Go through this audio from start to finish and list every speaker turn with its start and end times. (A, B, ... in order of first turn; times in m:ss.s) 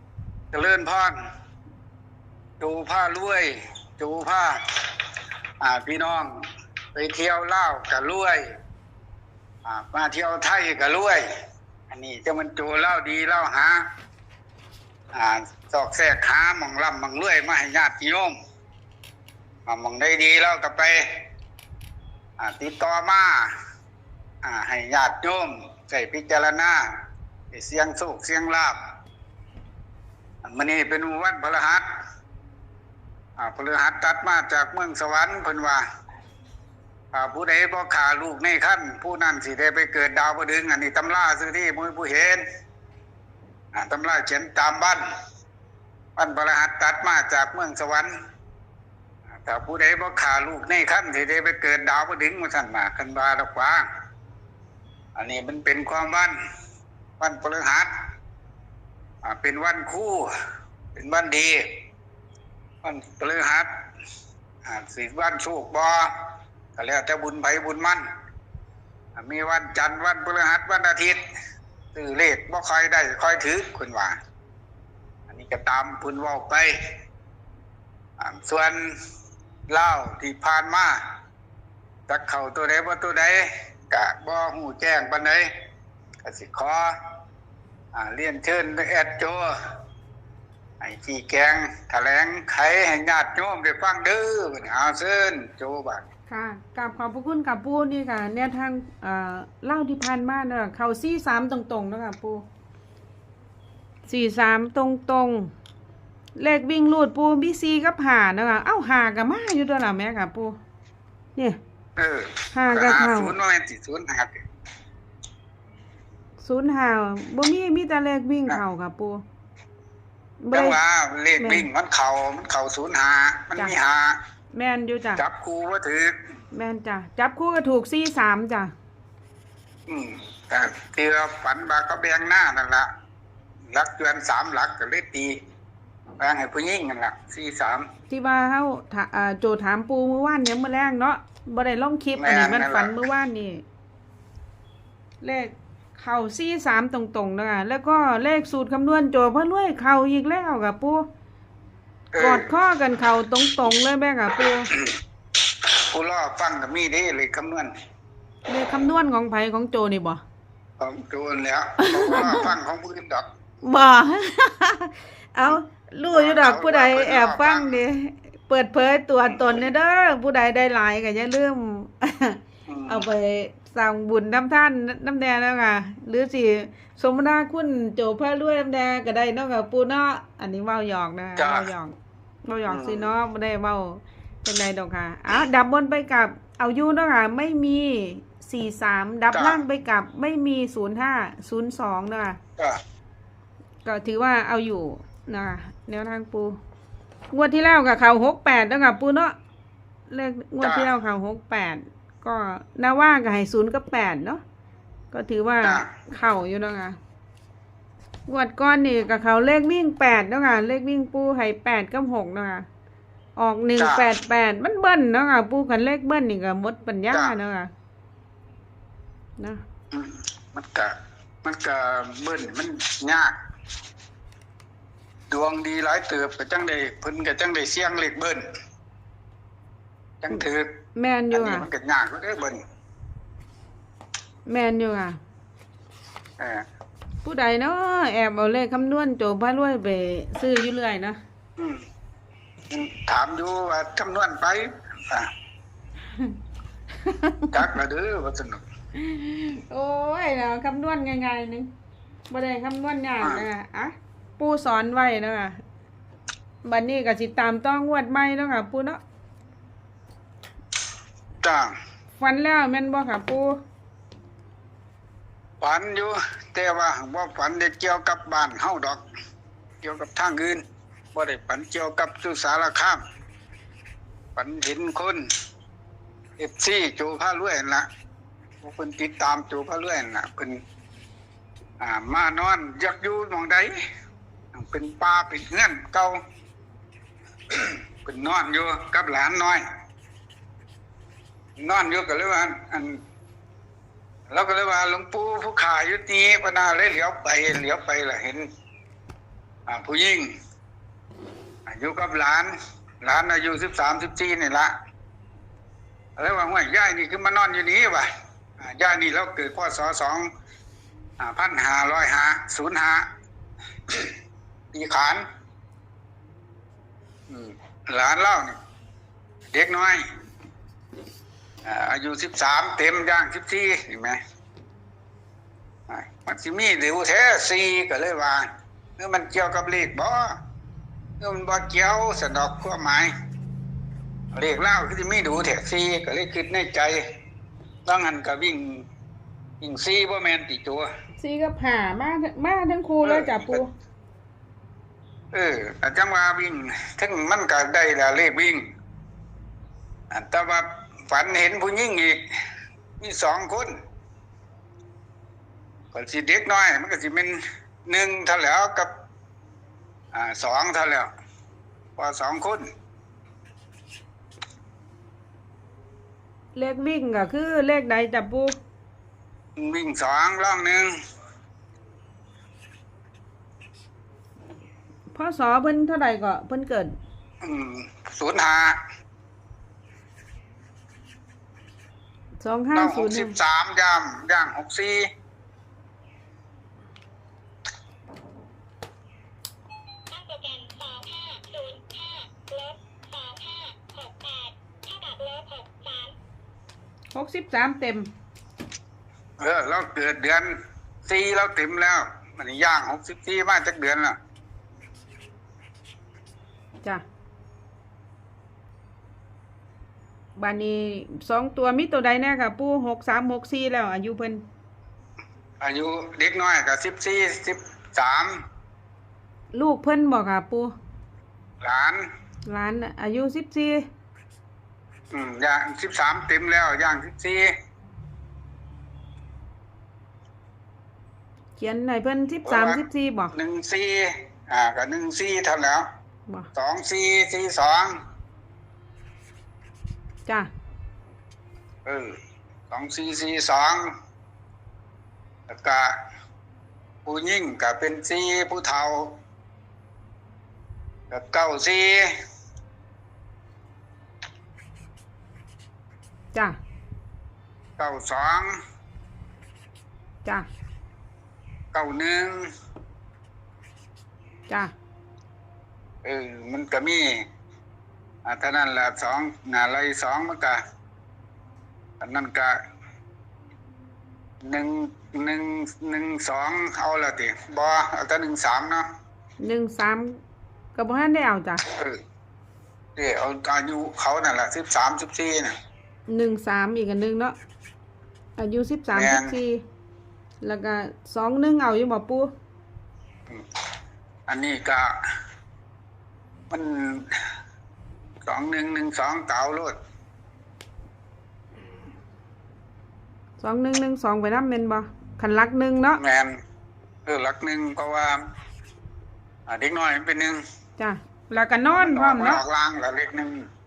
0:00.5-0:01.2 A
0:02.6-0:05.0 A
0:05.6-0:06.4 A
0:07.0-0:08.4 A
0:09.6-0:11.3 A
0:11.9-0:13.8 A
0:15.1-0:18.4 A
0:19.7-0:21.2 A
0:22.4-0:23.5 A
0:24.4-0:26.9 A
0:27.5-0:28.8 A
0:30.4-0:31.9 A
0:33.4-0:35.8 A
0:37.1-0:42.4 A
0:43.7-0:45.0 A
0:46.2-0:48.1 A
0:49.4-0:53.8 A
0:55.2-0:56.4 A
0:57.2-0:57.9 A
0:59.2-1:00.3 A
1:01.0-1:01.8 A
1:02.8-1:03.7 A
1:04.6-1:08.0 A
1:09.2-1:11.2 A
1:11.9-1:14.2 A
1:15.3-1:16.8 A
1:18.2-1:19.0 A
1:19.7-1:21.0 A
1:22.1-1:25.5 A
1:26.2-1:27.0 A
1:27.9-1:29.6 A
1:30.8-1:36.0 A
1:36.3-1:42.4 B
1:44.1-1:45.5 B
1:46.4-1:50.6 B
1:52.0-1:54.4 A
1:52.5-1:53.3 B
1:56.4-1:59.2 B
2:00.4-2:00.8 B
2:00.5-2:04.2 A
2:01.4-2:01.7 B
2:04.5-2:05.2 B
2:05.2-2:06.1 A
2:06.5-2:08.7 B
2:09.9-2:12.9 A
2:13.7-2:15.4 A
2:16.2-2:17.9 A
2:18.1-2:23.6 B
2:22.2-2:23.0 A
2:25.2-2:31.0 B
2:32.1-2:32.5 A
2:32.2-2:34.7 B
2:35.6-2:37.7 A
2:38.5-2:40.2 B
2:40.8-2:43.3 A
2:41.8-2:42.5 B
2:43.6-3:12.4 B
2:46.1-2:47.8 A
2:49.3-2:49.7 A
2:52.7-2:53.1 A
3:01.4-3:01.7 A
3:02.7-3:03.1 A
3:09.3-3:09.6 A
3:13.8-3:16.6 B
3:17.3-3:19.4 B
3:20.1-3:24.4 B
3:20.6-3:20.9 A
3:25.1-3:27.0 B
3:25.6-3:25.9 A
3:28.3-3:32.7 B
3:33.4-3:37.7 B
3:33.8-3:34.1 A
3:39.9-3:43.3 A
3:45.3-3:48.5 A
3:50.2-3:50.8 A
3:51.0-3:51.7 B
3:51.3-3:52.6 A
3:54.5-3:55.2 B
3:56.4-3:56.6 A
3:57.2-4:01.2 B
4:01.6-4:01.8 A
4:02.7-4:05.3 A
4:07.0-4:07.6 B
4:07.5-4:08.6 A
4:09.0-4:11.7 B
4:12.3-4:15.6 B
4:13.2-4:13.5 A
4:16.6-4:19.0 B
4:21.4-4:21.7 A
4:22.2-4:23.6 B
4:25.6-4:29.0 A
4:29.8-4:30.6 A
4:31.1-4:33.0 A
4:34.4-4:35.2 A
4:36.4-4:37.9 A
4:38.6-4:40.6 A
4:41.8-4:43.8 A
4:44.5-4:46.2 A
4:47.5-4:49.6 A
4:51.6-4:53.0 A
4:54.3-4:58.5 A
4:59.7-5:00.3 A
5:01.7-5:04.7 A
5:06.2-5:08.1 A
5:08.6-5:10.3 A
5:11.2-5:13.1 A
5:13.9-5:14.2 A
5:14.7-5:15.2 A
5:17.3-5:18.6 A
5:19.5-5:20.0 A
5:21.6-5:24.2 A
5:25.9-5:30.4 A
5:31.2-5:33.1 A
5:34.3-5:37.0 A
5:37.9-5:38.8 A
5:39.6-5:40.9 A
5:41.2-5:43.7 B
5:43.0-5:43.6 A
5:45.3-5:48.6 A
5:50.1-5:52.2 A
5:53.0-5:53.7 A
5:55.9-5:58.9 A
6:00.1-6:01.1 A
6:02.0-6:02.6 A
6:06.6-6:08.6 B
6:09.6-6:10.9 A
6:15.1-6:16.9 B
6:17.4-6:18.8 A
6:22.4-6:23.4 B
6:22.7-6:25.1 A
6:30.5-6:32.1 C
6:33.2-6:34.4 C
6:34.9-6:35.9 C
6:37.1-6:38.1 B
6:39.4-6:44.2 A
6:50.4-6:54.4 B
6:55.6-6:58.4 A
6:59.5-7:00.7 B
7:01.6-7:02.0 A
7:02.5-7:03.9 B
7:05.1-7:07.5 A
7:11.6-7:13.4 B
7:12.4-7:12.8 A
7:13.3-7:15.9 A
7:16.6-7:18.0 A
7:21.8-7:22.2 A
7:22.7-7:23.9 A
7:25.5-7:26.0 A
7:27.1-7:29.2 A
7:31.1-7:32.2 A
7:37.8-7:38.6 A
7:41.7-7:42.5 A
7:46.0-7:47.1 A
7:48.2-7:50.6 A
7:52.0-7:52.6 A
7:54.4-7:58.9 A
7:59.4-8:00.2 B
8:00.8-8:01.6 B
8:01.7-8:02.0 A
8:03.0-8:05.5 A
8:06.1-8:07.4 B
8:08.4-8:09.6 B
8:08.9-8:09.3 A
8:10.4-8:12.3 B
8:14.3-8:15.0 A
8:16.5-8:17.3 A
8:18.2-8:19.8 A
8:23.4-8:26.0 B
8:26.0-8:26.4 A
8:27.1-8:28.2 A
8:29.5-8:30.4 A
8:30.8-8:32.4 B
8:31.7-8:33.5 A